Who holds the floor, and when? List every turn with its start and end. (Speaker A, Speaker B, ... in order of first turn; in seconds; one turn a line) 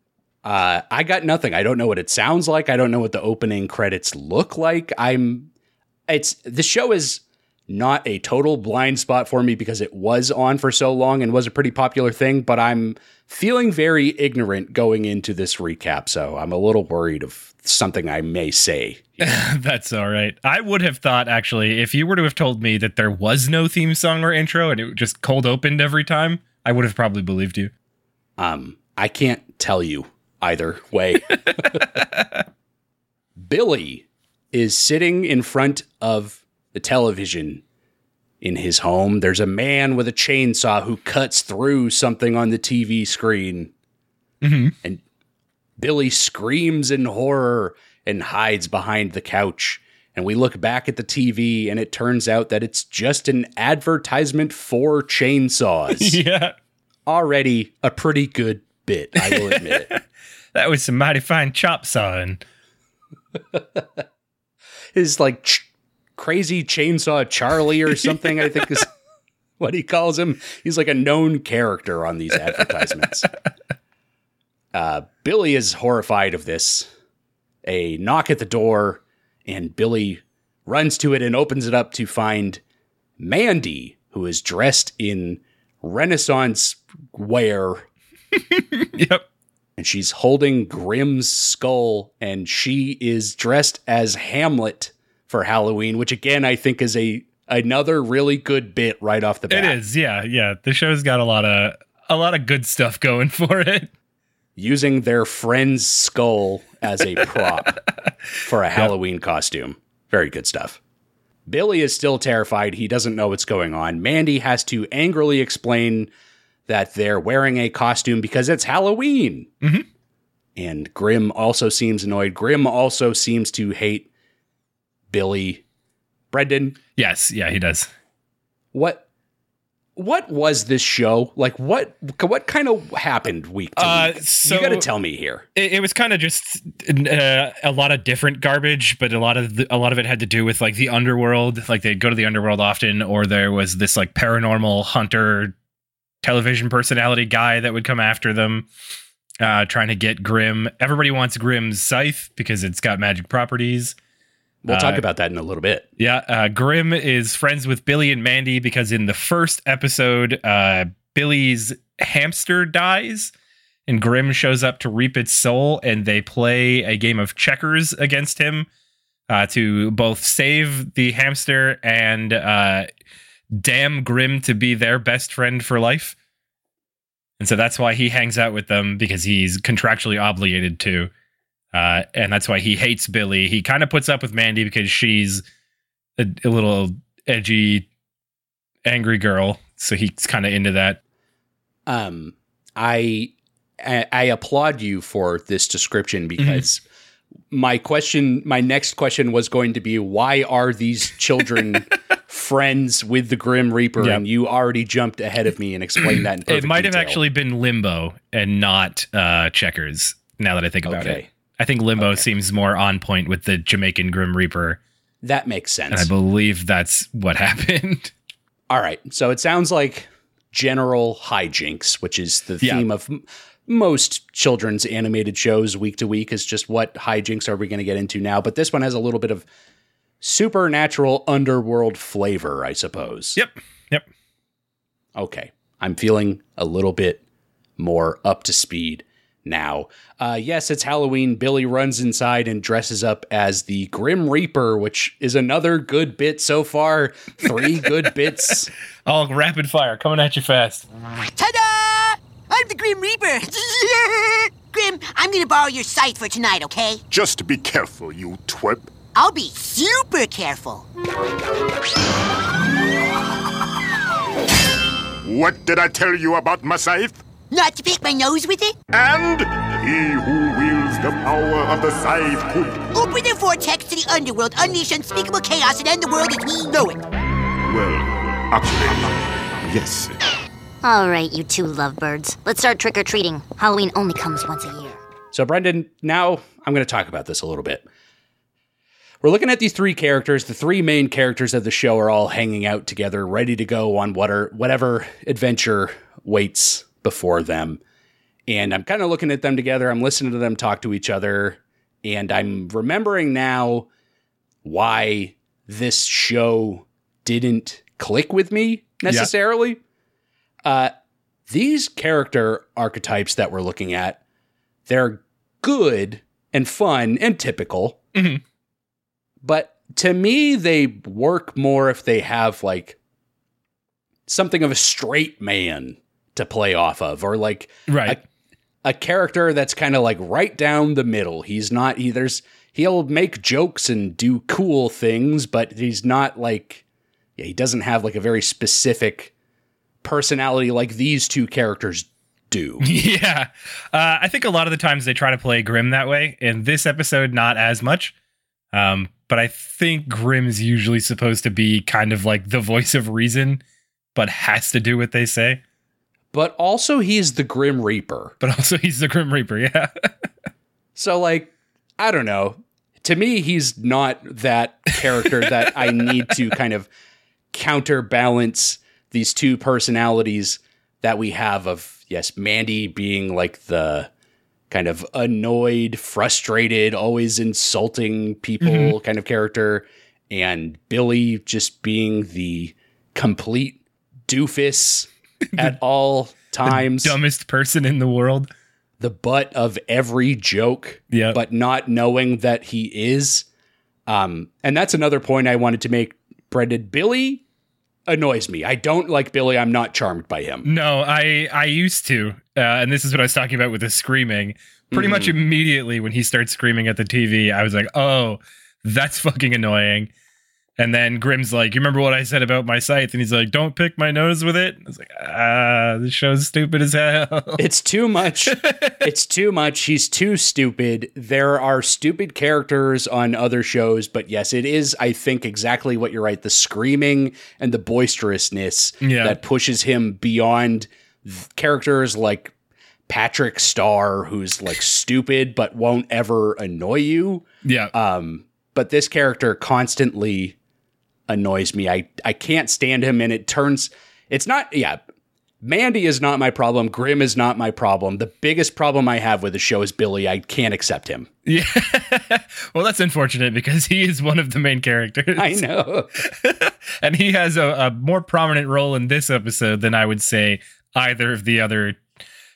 Speaker A: 0.4-5.5
Speaker A: 6.1-19.4
Speaker B: 19.2-27.7
Speaker A: 28.4-31.8
Speaker B: 31.6-32.4
Speaker A: 33.4-37.6
Speaker A: 38.4-43.7
Speaker B: 44.4-44.8
Speaker A: 45.8-56.2
Speaker B: 56.0-56.5
Speaker A: 57.1-59.9
Speaker B: 59.2-60.0
Speaker B: 60.5-62.4
Speaker A: 63.5-63.8
Speaker A: 64.9-68.9
Speaker B: 67.9-68.8
Speaker A: 69.6-73.3
Speaker A: 74.7-76.9
Speaker A: 77.6-82.6
Speaker A: 83.2-87.9
Speaker B: 88.3-89.2
Speaker A: 89.8-99.8
Speaker B: 99.5-103.9
Speaker A: 104.5-107.8
Speaker A: 108.4-110.8
Speaker A: 111.5-116.1
Speaker A: 116.7-119.5
Speaker A: 120.5-124.1
Speaker A: 125.1-125.6
Speaker A: 126.3-126.8
Speaker B: 127.0-127.9
Speaker A: 128.7-129.0
Speaker A: 129.9-135.4
Speaker B: 133.8-134.9
Speaker B: 135.5-145.6
Speaker B: 146.2-148.7
Speaker B: 149.4-153.9
Speaker A: 154.6-155.9
Speaker B: 154.7-155.0
Speaker B: 156.0-163.3
Speaker B: 163.9-168.7
Speaker B: 169.3-172.9
Speaker B: 173.5-176.1
Speaker B: 177.4-181.1
Speaker B: 181.7-185.4
Speaker B: 186.2-187.9
Speaker B: 188.8-191.0
Speaker A: 191.9-196.8
Speaker B: 196.4-196.6
Speaker A: 197.5-207.2
Speaker B: 206.2-214.8
Speaker A: 210.8-211.3
Speaker A: 212.0-212.2
Speaker A: 215.2-216.1
Speaker B: 215.9-218.1
Speaker A: 218.7-229.4
Speaker A: 230.2-233.4
Speaker B: 233.3-234.1
Speaker A: 235.1-237.2
Speaker A: 237.8-248.7
Speaker B: 249.1-250.8
Speaker C: 251.3-257.0
Speaker D: 257.1-258.9
Speaker C: 259.1-260.9
Speaker D: 265.2-267.2
Speaker C: 267.5-268.8
Speaker D: 268.9-272.9
Speaker C: 272.9-277.0
Speaker D: 277.7-280.1
Speaker E: 280.8-285.0
Speaker A: 285.3-287.9
Speaker A: 289.2-297.8
Speaker A: 298.5-303.9
Speaker A: 304.6-309.8
Speaker A: 310.6-310.9
Speaker A: 311.5-314.2
Speaker A: 314.9-318.0
Speaker B: 318.1-318.4
Speaker A: 319.4-323.0
Speaker A: 324.3-328.2
Speaker B: 327.9-328.2
Speaker A: 328.8-336.8
Speaker A: 337.4-339.3
Speaker A: 340.0-342.9
Speaker B: 342.8-348.1
Speaker B: 348.7-353.6
Speaker B: 354.1-355.6
Speaker A: 356.3-358.3
Speaker B: 358.4-360.3
Speaker A: 360.9-366.9
Speaker A: 367.5-374.1
Speaker A: 374.7-387.2
Speaker B: 378.6-378.9
Speaker B: 386.6-388.5
Speaker A: 389.0-393.4
Speaker B: 391.1-391.4
Speaker A: 394.1-397.4
Speaker A: 398.1-400.7
Speaker B: 400.6-410.1
Speaker A: 404.9-405.4
Speaker B: 410.8-417.6
Speaker A: 417.6-432.5
Speaker B: 418.5-419.0
Speaker B: 429.0-429.4
Speaker A: 433.1-440.6
Speaker B: 437.6-437.9
Speaker A: 441.3-445.0
Speaker A: 445.6-451.3
Speaker B: 451.4-455.6
Speaker A: 455.4-456.1
Speaker B: 456.2-462.0